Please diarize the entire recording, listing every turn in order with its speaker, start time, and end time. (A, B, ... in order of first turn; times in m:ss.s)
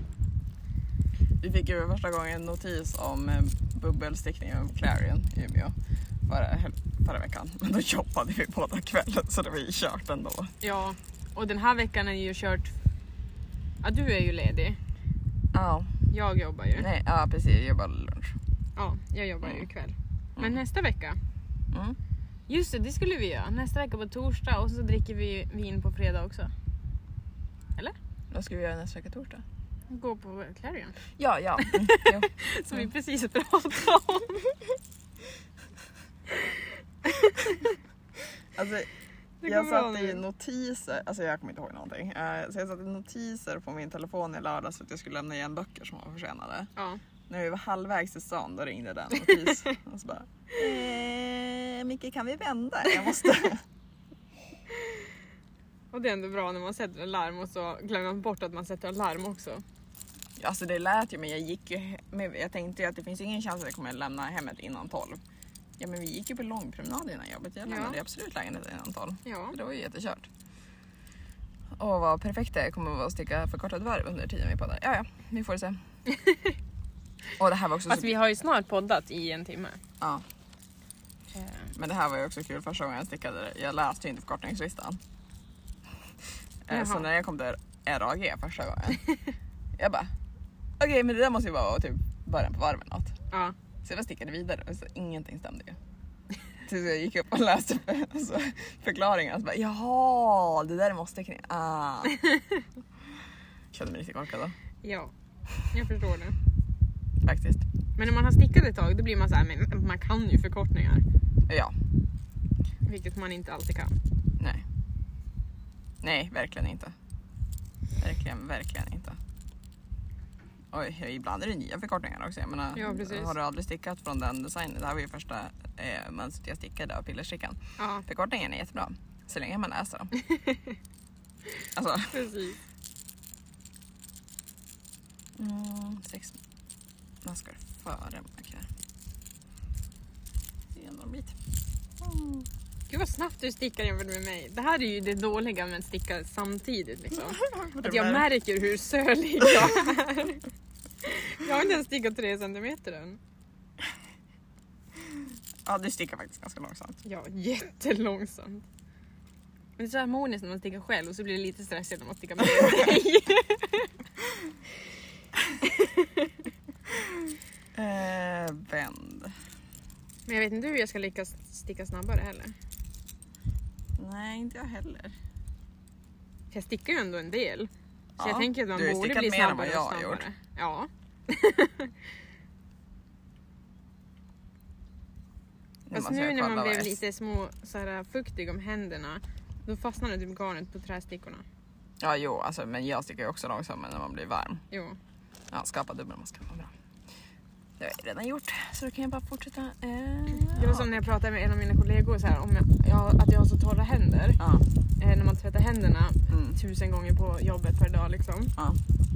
0:01.4-0:05.7 A
0:06.2-0:10.5 A
0:10.6-0:12.7 B
0:13.8-0:14.8 B
0:15.5-0:15.9 A
0:16.1-0:16.9 B
0:16.8-0:18.4 A
0:18.8-0:21.2 B
0:21.7-0:22.0 A
0:22.5-0:26.5 B
0:28.3-0:29.4 A
0:29.9-0:31.0 B
0:31.2-0:32.3 A
0:31.6-0:34.5 B
0:37.0-0:37.8 B
0:38.5-0:38.9 A
0:39.4-0:40.2 B
0:39.4-0:46.7 A
0:47.3-0:53.6 A
0:49.2-0:49.8 B
0:55.9-0:59.6 B
1:00.4-1:05.2 A
1:05.8-1:10.3 A
1:07.6-1:08.0 B
1:09.2-1:09.6 B
1:11.8-1:15.8 A
1:16.1-1:16.5 B
1:17.4-1:18.1 A
1:17.8-1:19.8 B
1:21.4-1:21.7 B
1:21.7-1:25.0 A
1:26.6-1:29.0 A
1:26.7-1:27.1 B
1:29.8-1:30.1 A
1:30.8-1:33.2 A
1:33.8-1:35.8 A
1:36.6-1:42.2 A
1:43.7-1:44.6 A
1:44.8-1:45.1 B
1:45.7-1:46.4 B
1:47.2-1:47.6 A
1:48.0-1:51.0 B
1:51.5-1:51.7 A
1:52.9-1:54.0 B
1:54.4-1:54.6 A
1:56.0-1:56.9 A
1:58.0-1:59.2 A
2:00.7-2:10.1 A
2:02.7-2:03.3 B
2:07.8-2:08.0 B
2:10.2-2:10.7 B
2:11.7-2:12.2 A
2:12.1-2:12.6 B
2:15.4-2:16.4 A
2:17.2-2:18.7 A
2:20.7-2:21.4 A
2:22.0-2:22.5 A
2:22.9-2:30.4 B
2:27.3-2:28.3 A
2:31.0-2:33.2 B
2:35.6-2:37.0 A
2:37.0-2:38.6 B
2:39.8-2:43.9 B
2:42.6-2:42.9 A
2:45.6-2:46.3 B
2:46.9-2:49.4 A
2:50.3-2:52.5 B
2:54.0-2:55.2 A
2:56.5-3:01.9 B
2:58.2-3:00.2 A
3:05.9-3:07.0 A
3:05.9-3:11.4 B
3:12.0-3:14.6 A
3:14.7-3:15.0 B
3:15.5-3:16.7 A
3:17.8-3:21.1 A
3:20.3-3:24.4 B
3:24.4-3:24.7 A
3:25.0-3:28.5 B
3:26.3-3:26.6 A